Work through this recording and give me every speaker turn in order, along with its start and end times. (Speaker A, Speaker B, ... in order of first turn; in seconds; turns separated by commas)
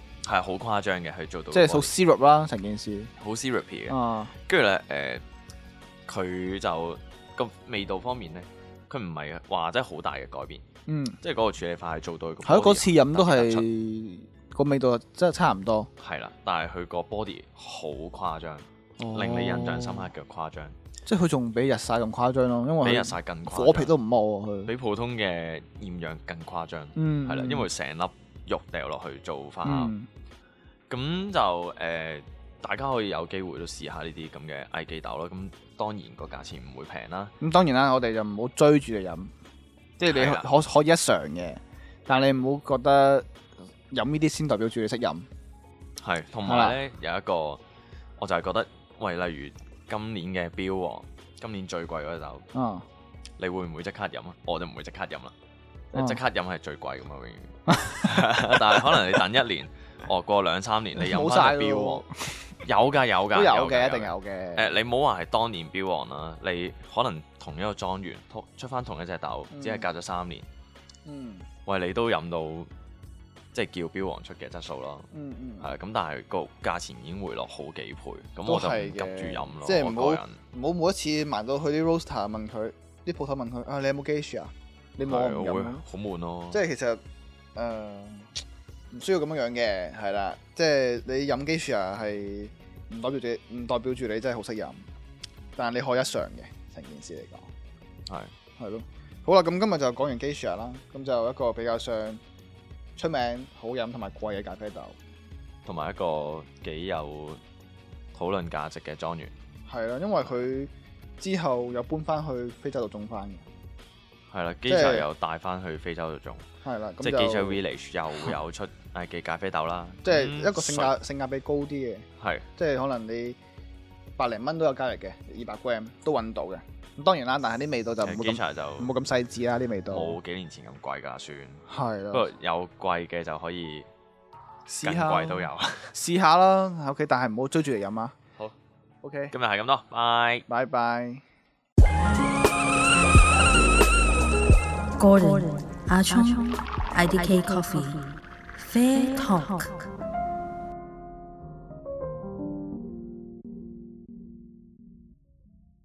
Speaker A: 0.2-1.9, Speaker B: 1.5-3.1, Speaker A: 3.2-5.2, Speaker B: 3.9-4.3, Speaker A: 6.1-10.6, Speaker B: 10.9-11.2, Speaker A: 11.2-13.7, Speaker B: 12.4-15.9, Speaker A: 16.0-20.8, Speaker B: 19.0-20.1, Speaker B: 21.1-24.7, Speaker A: 22.8-23.9, Speaker A: 24.7-29.9, Speaker B: 26.9-27.7, Speaker B: 29.6-30.1, Speaker A: 30.9-37.3, Speaker B: 37.4-39.3, Speaker B: 40.0-43.3, Speaker A: 40.0-40.5, Speaker B: 43.9-45.3, Speaker A: 46.0-47.6, Speaker B: 46.4-46.8, Speaker A: 48.2-52.5, Speaker B: 52.5-52.8, Speaker A: 53.4-55.3, Speaker A: 55.9-62.0, Speaker B: 55.9-56.2, Speaker B: 57.7-59.0, Speaker B: 61.0-62.4, Speaker A: 62.6-70.5, Speaker B: 63.3-64.7, Speaker B: 69.5-69.8, Speaker B: 71.0-71.5, Speaker A: 71.7-72.7, Speaker A: 73.5-75.1, Speaker B: 75.1-75.7, Speaker A: 75.6-80.4, Speaker B: 78.4-85.8, Speaker A: 85.0-86.6, Speaker B: 86.5-87.0, Speaker B: 87.5-88.4, Speaker B: 88.9-94.8, Speaker B: 95.5-97.5, Speaker B: 98.6-102.2, Speaker B: 103.0-105.0, Speaker A: 105.6-107.4, Speaker A: 108.1-109.3, Speaker B: 109.7-113.5, Speaker A: 114.3-116.4, Speaker B: 114.7-115.1, Speaker B: 116.6-117.6, Speaker A: 117.0-120.9, Speaker B: 120.0-122.0, Speaker A: 122.2-122.5, Speaker B: 122.6-123.4, Speaker B: 124.2-130.2, Speaker A: 128.0-128.9, Speaker A: 129.9-133.9, Speaker B: 131.7-132.3, Speaker B: 134.7-138.1, Speaker A: 134.8-135.9, Speaker B: 139.0-139.3, Speaker A: 139.3-140.4, Speaker B: 140.5-141.2, Speaker C: 145.0-149.7